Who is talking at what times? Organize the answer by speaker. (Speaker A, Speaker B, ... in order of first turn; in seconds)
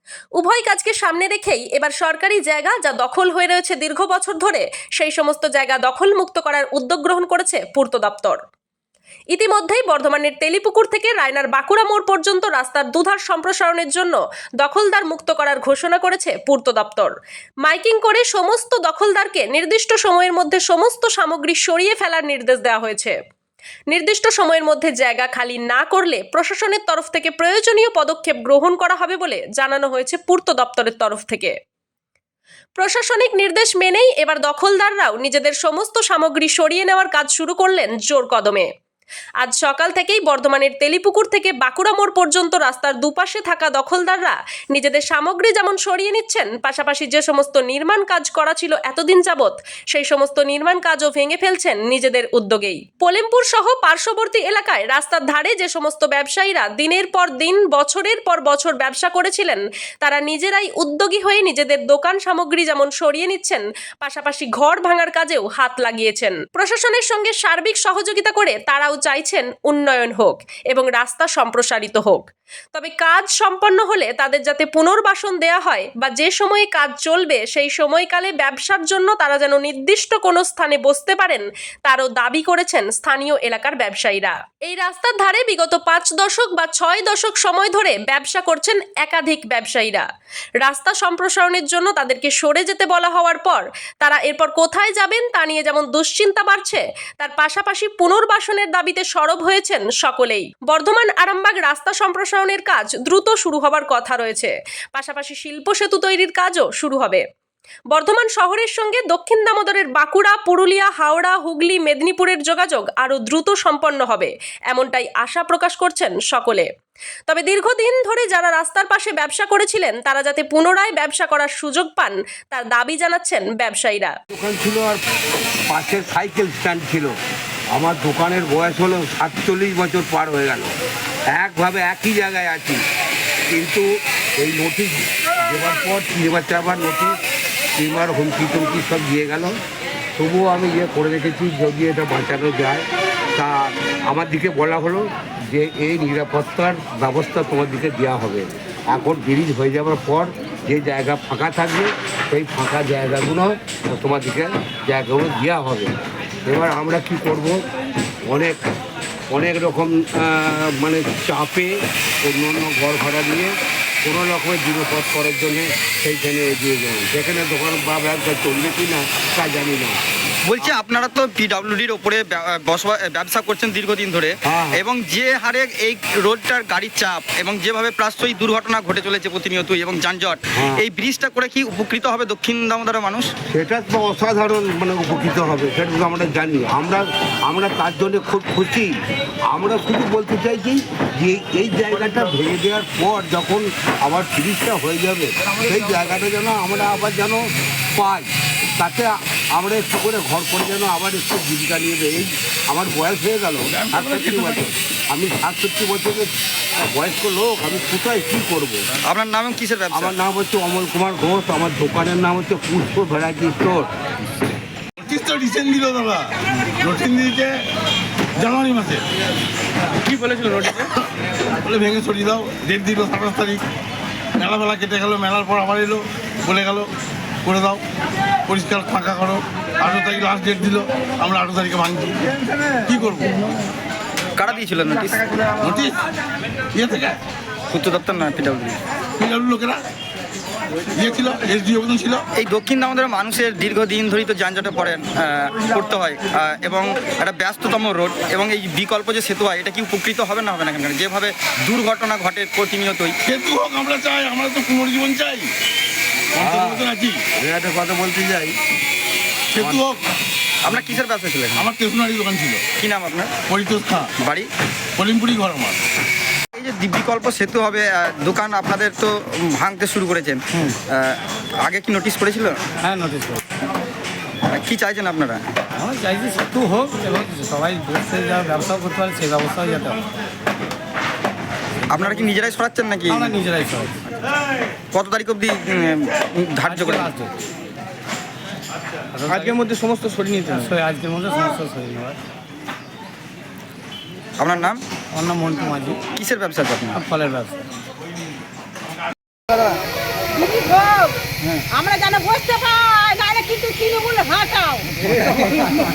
Speaker A: 0.4-8.4, 9.3-17.1, 17.6-23.1, 23.9-31.5, 32.8-38.7, 39.4-90.0, 90.6-107.2, 107.9-116.7, 117.3-124.1
Speaker B: 124.3-125.0, 125.7-127.1, 127.7-130.7, 131.3-132.8, 133.5-133.8, 134.4-137.1, 137.8-139.5, 140.2-155.9, 156.4-157.6, 158.3-158.6, 159.3-161.7, 162.2-163.5, 164.0-170.0, 174.4-174.8, 180.6-180.8, 183.5-188.9, 189.5-197.4, 197.9-208.8, 209.9-213.9, 256.4-258.6
Speaker C: 170.5-183.3, 209.1-210.1, 234.4-235.5, 237.7-238.8, 242.4-253.2, 260.6-261.7, 262.8-263.3, 264.2-264.5, 266.5-272.6, 274.5-275.4, 281.9-283.4, 284.9-287.1, 289.3-290.5, 294.4-294.8, 296.1-297.0
Speaker D: 203.8-204.6, 215.0-217.6, 218.3-219.0, 221.6-223.6, 224.4-226.9, 227.4-227.8, 228.5-233.3, 235.6-236.0, 236.7-237.2, 239.2-239.8, 240.9-242.2, 253.2-255.5, 256.3-257.2, 259.6-260.0, 261.6-262.6, 263.5-264.1, 265.0-265.8
Speaker E: 220.1-220.8, 272.8-273.4, 275.8-280.0, 283.1-284.0, 286.7-287.3, 289.1-289.6, 290.5-292.2, 295.1-296.0, 296.9-297.6
Speaker F: 300.4-301.1, 301.7-304.9